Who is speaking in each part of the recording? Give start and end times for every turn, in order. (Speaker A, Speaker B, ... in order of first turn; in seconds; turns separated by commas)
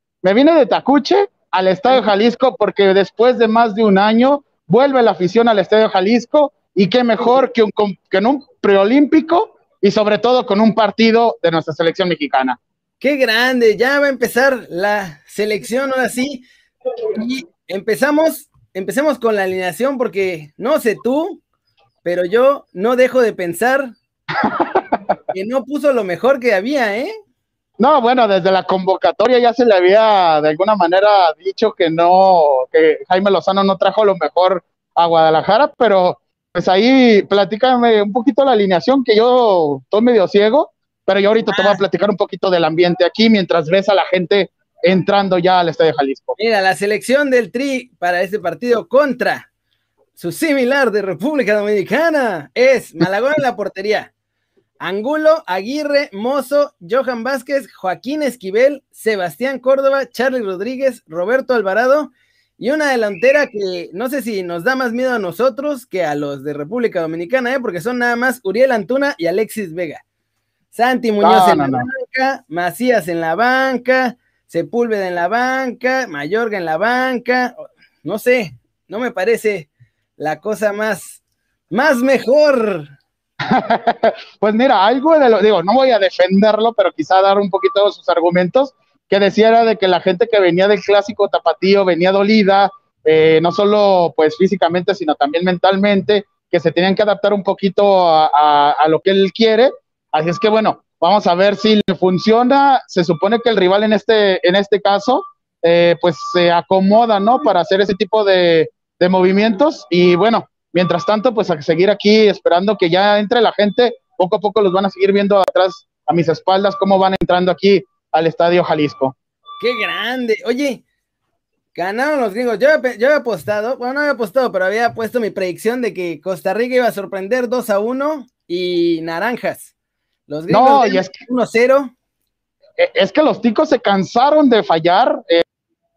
Speaker A: 0.2-12.6, Speaker B: 13.0-16.4, Speaker B: 17.1-21.4, Speaker B: 22.0-23.9, Speaker A: 24.4-25.0, Speaker B: 25.3-27.1, Speaker A: 27.8-46.4, Speaker B: 41.5-41.8, Speaker B: 46.4-49.5, Speaker B: 50.1-54.1, Speaker B: 54.8-70.0, Speaker B: 70.7-82.9, Speaker A: 71.2-71.9, Speaker A: 83.5-119.2, Speaker B: 119.6-120.8, Speaker B: 121.7-129.7, Speaker B: 130.3-131.9, Speaker A: 130.5-131.2, Speaker A: 132.8-135.4